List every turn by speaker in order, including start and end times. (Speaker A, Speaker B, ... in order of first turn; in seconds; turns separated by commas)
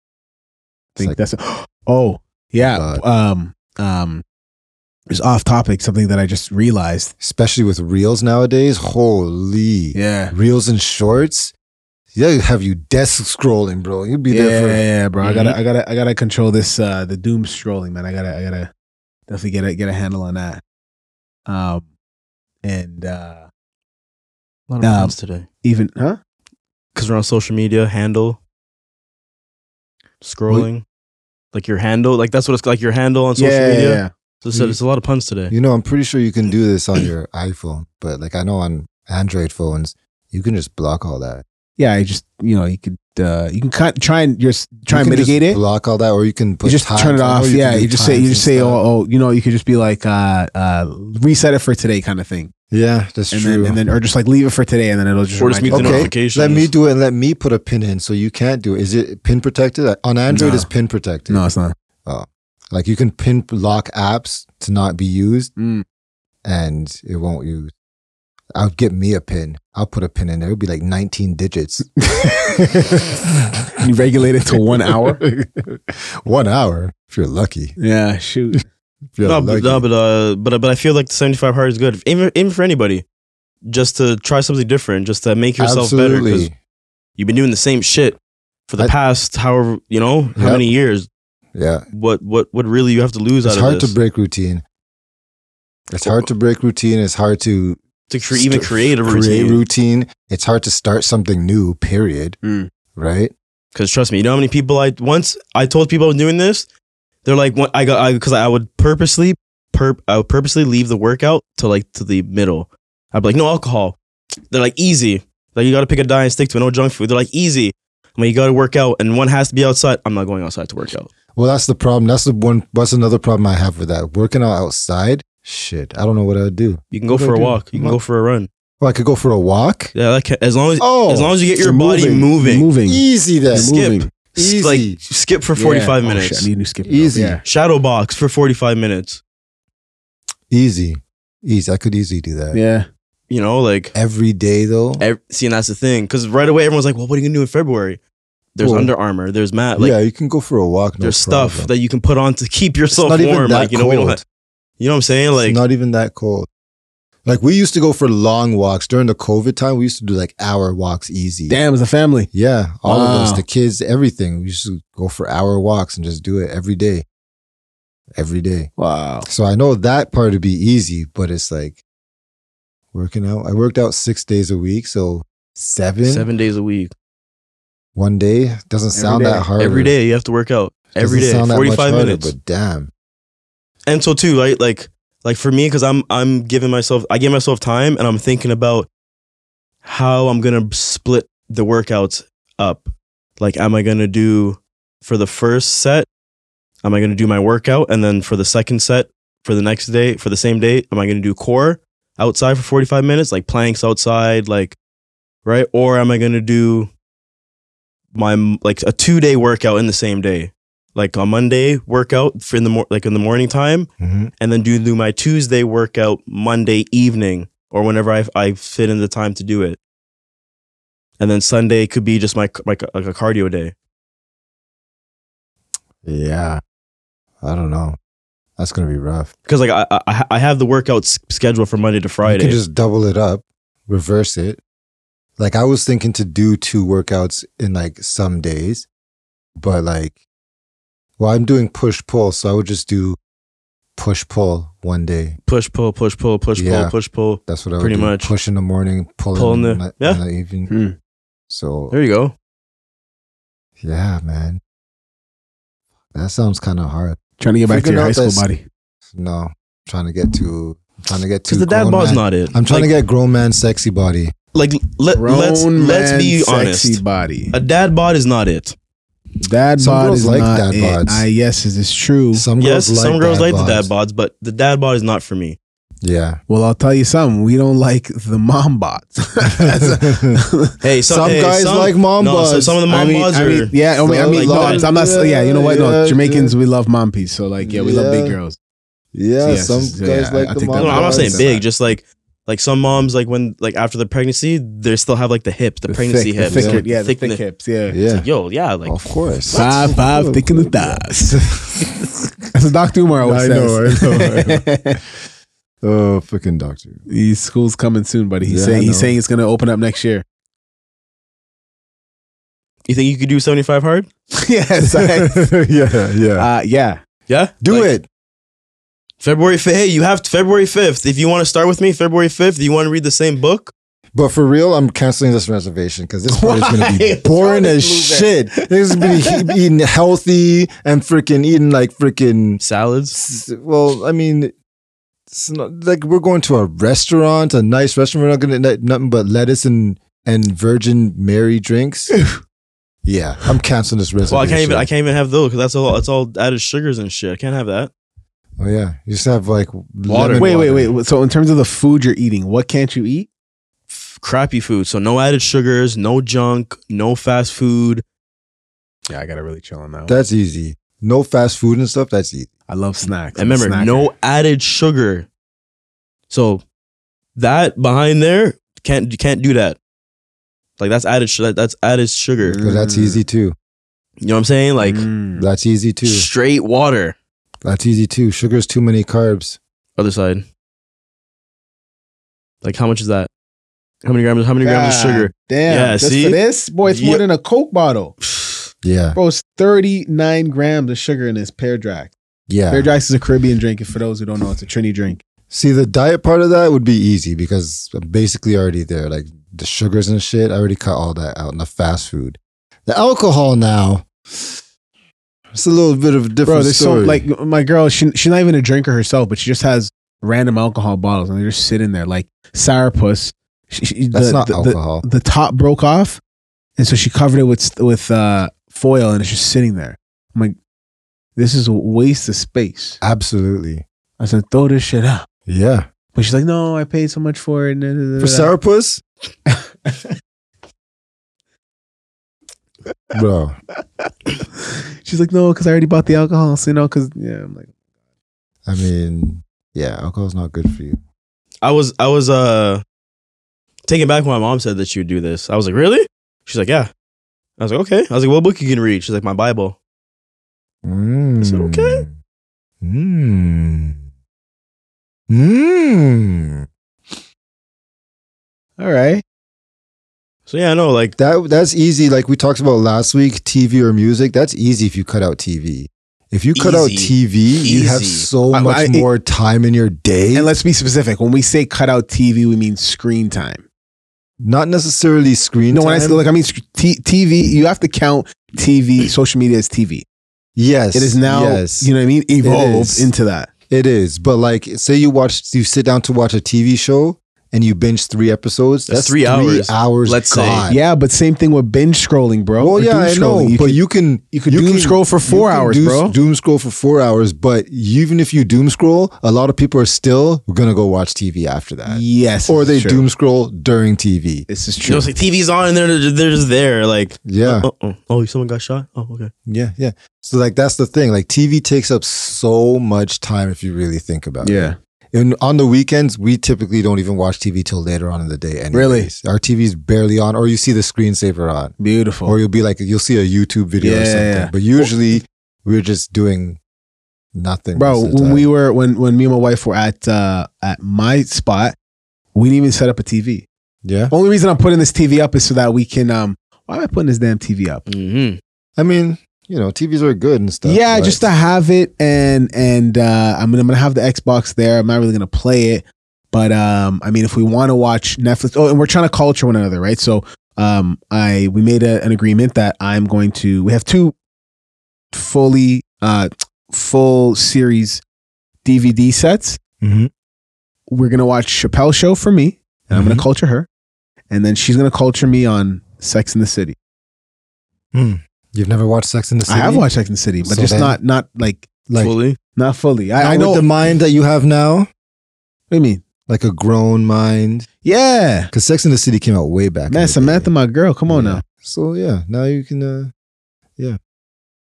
Speaker A: 0.9-4.2, Speaker B: 2.6-3.0, Speaker A: 5.1-7.1, Speaker B: 7.2-11.5, Speaker A: 9.9-10.3, Speaker B: 12.1-14.8, Speaker A: 14.3-18.7, Speaker C: 15.2-15.6, Speaker A: 19.3-20.6, Speaker A: 21.4-21.9, Speaker A: 22.6-23.5, Speaker C: 24.7-25.5, Speaker A: 24.8-26.2, Speaker C: 26.9-28.4, Speaker C: 30.2-30.8, Speaker C: 31.5-35.5, Speaker A: 33.4-34.1, Speaker B: 35.5-41.4, Speaker A: 41.8-45.6, Speaker B: 44.9-48.8, Speaker A: 46.6-52.5, Speaker B: 52.7-53.8, Speaker A: 53.3-56.1, Speaker C: 55.4-56.7, Speaker B: 55.7-61.4, Speaker A: 60.3-60.7, Speaker A: 61.3-61.7, Speaker B: 62.0-65.5, Speaker A: 65.6-65.8, Speaker B: 66.4-67.7, Speaker B: 68.5-73.7, Speaker A: 72.0-72.6, Speaker A: 73.8-75.2, Speaker B: 74.5-77.8, Speaker A: 77.8-78.6, Speaker B: 79.2-79.8, Speaker C: 79.2-83.0, Speaker C: 83.7-86.5, Speaker B: 85.6-86.5, Speaker C: 87.2-88.2, Speaker C: 88.7-91.1, Speaker B: 90.3-90.7, Speaker B: 91.5-91.8, Speaker C: 91.9-93.9, Speaker B: 93.4-94.6, Speaker B: 95.9-97.8, Speaker C: 98.1-99.6, Speaker B: 98.3-102.4, Speaker A: 102.4-102.7, Speaker B: 102.9-103.3, Speaker C: 103.7-106.7, Speaker C: 107.2-114.0, Speaker C: 114.5-121.1, Speaker B: 121.3-128.0, Speaker C: 126.9-128.5, Speaker B: 128.8-129.9, Speaker C: 129.9-132.7, Speaker B: 130.8-131.3, Speaker A: 131.6-134.1, Speaker B: 132.8-135.0, Speaker C: 133.5-136.5, Speaker A: 135.6-137.4, Speaker B: 136.8-137.4, Speaker C: 137.4-139.2, Speaker B: 140.5-142.6, Speaker A: 142.5-142.9, Speaker C: 143.3-143.9, Speaker B: 143.9-145.1, Speaker C: 145.0-148.0, Speaker C: 148.5-149.9, Speaker B: 148.6-148.9, Speaker B: 149.8-151.7, Speaker C: 151.0-154.2, Speaker B: 152.9-154.2, Speaker C: 154.8-155.6, Speaker B: 155.4-156.5, Speaker B: 157.2-161.6, Speaker A: 161.5-162.3, Speaker B: 162.3-167.0, Speaker A: 162.8-163.4, Speaker B: 168.1-168.7, Speaker A: 168.8-169.3, Speaker B: 169.2-171.8, Speaker B: 172.9-176.3, Speaker C: 176.0-176.9, Speaker B: 177.9-179.9, Speaker A: 178.9-179.5, Speaker C: 179.6-182.3, Speaker B: 181.0-182.9, Speaker C: 183.8-188.9, Speaker C: 189.8-196.1, Speaker C: 196.8-204.8, Speaker C: 205.4-206.9, Speaker C: 208.1-213.9, Speaker B: 214.0-214.3, Speaker C: 214.4-219.8, Speaker C: 221.2-223.7, Speaker B: 226.0-226.6, Speaker B: 227.4-228.0, Speaker B: 228.6-229.3, Speaker C: 229.4-232.6, Speaker B: 232.2-234.6, Speaker B: 235.4-238.8, Speaker B: 239.6-240.2, Speaker B: 241.2-243.2, Speaker B: 243.9-245.4, Speaker C: 245.5-248.3, Speaker B: 246.5-246.9, Speaker B: 247.4-250.7, Speaker C: 249.3-250.2, Speaker A: 250.7-250.9, Speaker B: 251.5-251.9, Speaker C: 251.9-252.3, Speaker B: 253.8-254.6, Speaker B: 256.1-258.4, Speaker A: 257.4-258.6, Speaker B: 259.1-264.3, Speaker C: 261.5-262.9, Speaker C: 264.5-268.7, Speaker A: 265.1-267.5, Speaker A: 269.4-272.4, Speaker B: 269.8-271.2, Speaker B: 272.3-273.9, Speaker C: 272.6-275.6, Speaker B: 276.0-276.4, Speaker A: 276.5-280.7, Speaker B: 279.5-280.4, Speaker C: 280.8-283.8, Speaker B: 281.1-282.8, Speaker A: 282.9-288.6, Speaker B: 284.0-286.5, Speaker C: 284.3-284.9, Speaker B: 287.6-288.4, Speaker B: 289.1-291.5, Speaker A: 289.4-291.6, Speaker C: 290.8-297.4, Speaker A: 295.9-298.0, Speaker B: 296.4-296.8, Speaker B: 297.9-298.3, Speaker C: 298.1-299.7, Speaker B: 298.8-302.3, Speaker A: 299.5-301.4, Speaker A: 302.5-305.0, Speaker B: 303.2-305.1, Speaker B: 305.8-307.0, Speaker A: 307.1-310.2, Speaker B: 308.4-309.1, Speaker C: 312.9-314.1, Speaker A: 314.3-315.5, Speaker B: 314.9-316.5, Speaker A: 316.4-317.0, Speaker C: 317.3-317.9, Speaker B: 317.6-318.1, Speaker C: 319.2-323.7, Speaker B: 324.1-332.6, Speaker A: 326.3-329.4, Speaker C: 332.6-333.2, Speaker B: 333.1-334.5, Speaker B: 335.3-342.1, Speaker B: 343.0-344.9, Speaker C: 344.3-347.9, Speaker B: 348.6-350.9, Speaker C: 350.1-350.5, Speaker A: 350.1-353.3, Speaker C: 353.9-358.0, Speaker A: 359.1-360.1, Speaker B: 360.1-362.5, Speaker A: 362.7-364.1, Speaker C: 363.4-365.3, Speaker C: 366.3-366.6, Speaker C: 367.4-369.8, Speaker C: 370.8-372.6, Speaker A: 372.4-373.2, Speaker B: 372.6-373.6, Speaker C: 374.2-375.1, Speaker A: 374.8-375.5, Speaker B: 375.4-376.3, Speaker C: 376.0-377.2, Speaker B: 377.6-379.6, Speaker C: 380.0-380.4, Speaker C: 382.6-383.3, Speaker C: 384.0-387.2, Speaker A: 384.6-388.1, Speaker C: 388.2-388.7, Speaker B: 388.8-389.2, Speaker A: 389.1-392.1, Speaker B: 392.5-392.9, Speaker A: 392.7-395.2, Speaker B: 395.5-404.6, Speaker B: 405.5-407.2, Speaker A: 406.4-416.2, Speaker B: 414.1-415.0, Speaker A: 416.8-420.6, Speaker A: 421.4-423.0, Speaker B: 423.0-423.8, Speaker A: 424.2-425.2, Speaker B: 425.5-425.9, Speaker A: 426.1-428.5, Speaker B: 428.2-429.0, Speaker A: 429.5-430.1, Speaker B: 433.1-433.6, Speaker A: 434.7-437.7, Speaker B: 438.6-441.0, Speaker C: 441.6-442.8, Speaker C: 443.9-446.9, Speaker C: 447.6-449.8, Speaker B: 450.8-452.1, Speaker C: 451.4-452.0, Speaker B: 452.8-454.0, Speaker B: 455.3-456.6, Speaker A: 458.8-459.2, Speaker C: 460.5-461.1, Speaker B: 461.2-470.5, Speaker C: 466.5-468.3, Speaker A: 468.5-469.1, Speaker A: 470.3-473.6, Speaker B: 474.4-476.2, Speaker A: 475.7-480.1, Speaker B: 480.6-481.9, Speaker A: 480.9-483.5, Speaker B: 482.4-483.1, Speaker B: 483.7-490.8, Speaker C: 488.9-490.7, Speaker A: 490.3-493.8, Speaker B: 492.6-504.5, Speaker A: 494.3-496.1, Speaker A: 501.9-503.0, Speaker A: 504.5-505.1, Speaker C: 504.8-509.3, Speaker B: 507.2-507.7, Speaker B: 509.4-526.6, Speaker A: 514.4-514.8, Speaker A: 518.7-519.1, Speaker A: 521.8-522.4, Speaker A: 523.8-524.9, Speaker B: 527.3-528.5, Speaker A: 527.8-531.7, Speaker A: 532.3-533.5, Speaker B: 533.8-534.1, Speaker A: 534.1-537.8, Speaker C: 537.9-538.4, Speaker B: 538.8-541.2, Speaker A: 540.6-554.1, Speaker A: 555.1-558.0, Speaker A: 558.6-559.6, Speaker B: 559.8-560.1, Speaker A: 560.9-563.7, Speaker B: 562.9-563.3, Speaker A: 564.3-566.8, Speaker B: 567.9-569.9, Speaker A: 569.5-571.7, Speaker B: 570.4-571.0, Speaker B: 571.9-572.1, Speaker C: 572.0-572.4, Speaker A: 572.5-573.7, Speaker B: 573.2-574.9, Speaker A: 575.7-576.0, Speaker B: 576.3-577.7, Speaker A: 577.8-578.5, Speaker B: 578.5-580.5, Speaker A: 579.9-581.4, Speaker B: 581.1-583.1